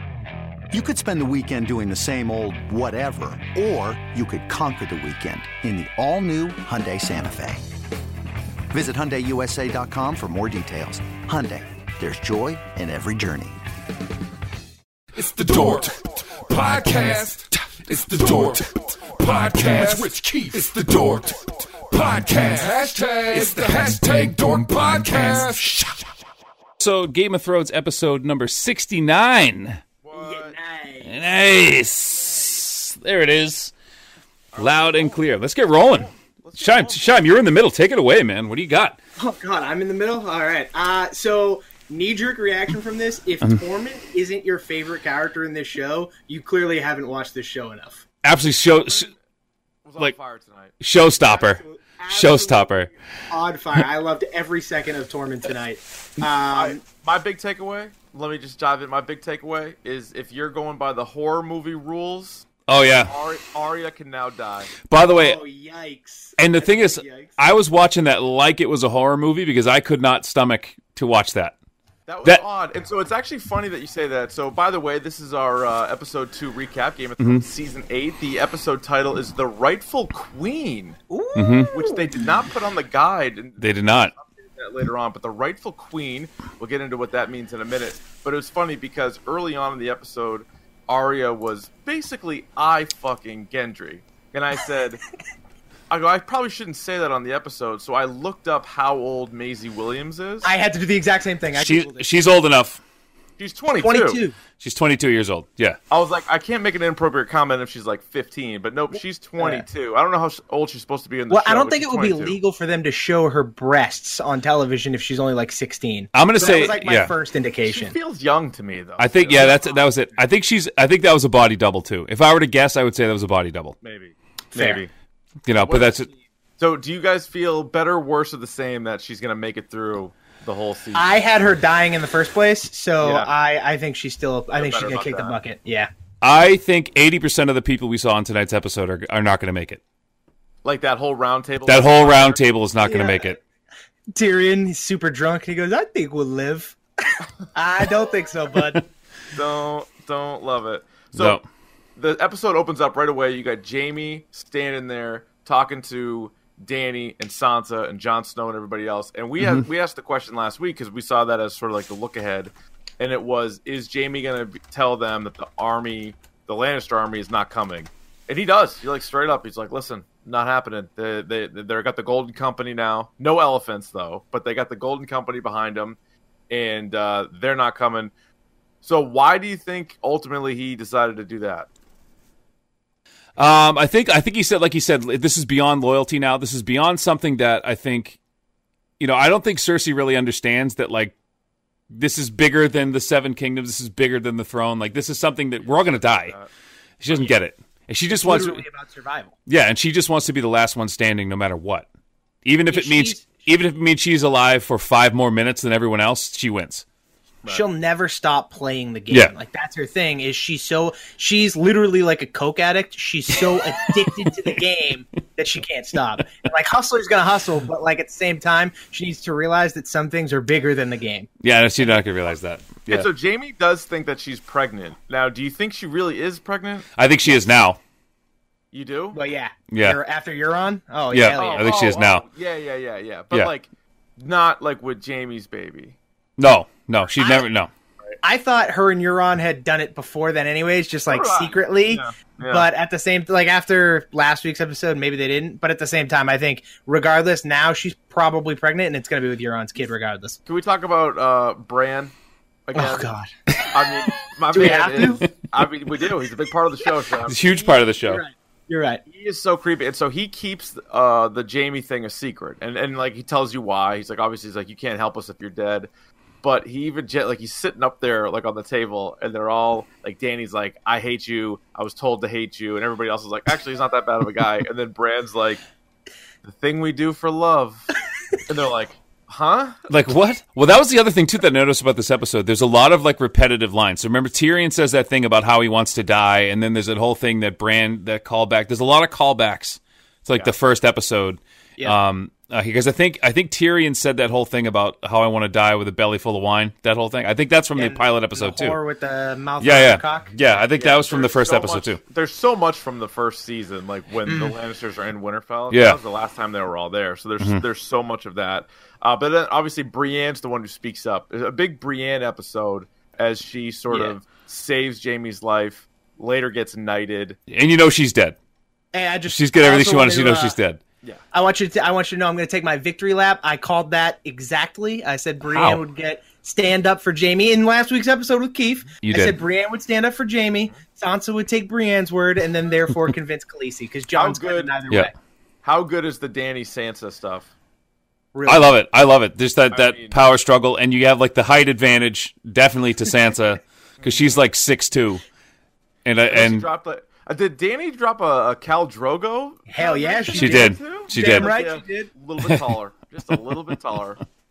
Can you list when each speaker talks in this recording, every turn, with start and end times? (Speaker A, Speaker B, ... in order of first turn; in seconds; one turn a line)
Speaker A: 0.7-7.7
Speaker A: 8.7-13.7
Speaker B: 15.1-26.0
Speaker C: 26.8-29.8
Speaker D: 30.0-30.6
Speaker E: 30.1-31.2
Speaker C: 31.0-33.7
Speaker D: 34.5-35.2
Speaker C: 34.6-39.0
Speaker D: 35.8-37.4
Speaker E: 39.2-48.0
Speaker C: 48.2-49.1
Speaker D: 48.8-49.2
Speaker D: 49.8-50.8
Speaker C: 50.8-52.9
Speaker E: 51.2-56.8
Speaker D: 56.5-62.5
Speaker C: 62.7-63.1
Speaker D: 63.1-64.8
Speaker C: 64.9-65.4
Speaker E: 65.0-67.4
Speaker C: 66.4-71.5
Speaker D: 72.1-81.0
Speaker C: 77.2-77.5
Speaker E: 81.1-82.2
Speaker C: 81.3-81.8
Speaker D: 81.7-95.0
Speaker C: 83.6-84.1
Speaker D: 95.9-100.5
Speaker E: 100.4-102.3
Speaker C: 101.5-102.8
Speaker D: 103.4-104.2
Speaker E: 103.8-104.4
Speaker C: 104.6-105.8
Speaker D: 105.9-112.4
Speaker E: 109.4-109.7
Speaker E: 111.3-118.0
Speaker C: 116.1-117.1
Speaker D: 117.7-119.8
Speaker C: 119.0-123.8
Speaker D: 123.8-124.9
Speaker E: 124.5-124.8
Speaker C: 125.5-126.1
Speaker D: 125.5-131.1
Speaker E: 130.9-135.9
Speaker D: 133.0-133.3
Speaker D: 134.5-135.4
Speaker C: 136.2-139.8
Speaker D: 140.6-142.4
Speaker C: 141.7-143.4
Speaker E: 142.8-143.3
Speaker E: 144.1-148.8
Speaker D: 149.3-151.4
Speaker C: 151.2-151.4
Speaker D: 152.0-176.0
Speaker C: 159.4-159.7
Speaker D: 176.5-178.1
Speaker D: 178.8-181.7
Speaker C: 183.4-188.2
Speaker C: 189.0-191.1
Speaker C: 191.9-196.4
Speaker D: 195.6-196.5
Speaker C: 197.0-198.6
Speaker D: 197.1-197.3
Speaker E: 198.1-199.3
Speaker C: 199.5-201.9
Speaker C: 202.4-206.8
Speaker E: 202.7-203.3
Speaker E: 207.5-221.3
Speaker C: 221.4-223.1
Speaker D: 222.9-227.4
Speaker C: 227.0-227.8
Speaker D: 228.7-229.2
Speaker E: 229.1-231.8
Speaker C: 229.7-230.0
Speaker C: 231.1-232.2
Speaker D: 231.4-236.0
Speaker C: 236.4-237.7
Speaker E: 237.2-237.5
Speaker E: 238.2-250.4
Speaker D: 241.1-242.7
Speaker D: 250.5-252.1
Speaker D: 252.7-253.1
Speaker E: 252.7-253.3
Speaker D: 253.7-257.8
Speaker E: 254.5-255.3
Speaker C: 257.3-258.2
Speaker E: 258.1-259.0
Speaker D: 259.1-265.9
Speaker D: 266.4-275.6
Speaker D: 276.4-277.9
Speaker D: 278.5-279.8
Speaker C: 279.9-298.8
Speaker E: 297.8-300.3
Speaker C: 299.6-302.0
Speaker D: 300.8-317.4
Speaker E: 304.3-304.6
Speaker C: 305.7-306.0
Speaker C: 317.5-318.4
Speaker E: 318.9-320.6
Speaker C: 319.3-320.8
Speaker E: 321.3-335.1
Speaker C: 325.4-325.8
Speaker C: 329.0-329.4
Speaker D: 334.1-334.8
Speaker D: 335.6-337.5
Speaker E: 338.3-338.7
Speaker C: 338.5-345.2
Speaker D: 339.7-340.3
Speaker D: 344.0-344.4
Speaker C: 346.1-346.7
Speaker D: 346.3-354.2
Speaker E: 349.7-352.1
Speaker C: 350.4-351.5
Speaker C: 352.4-352.7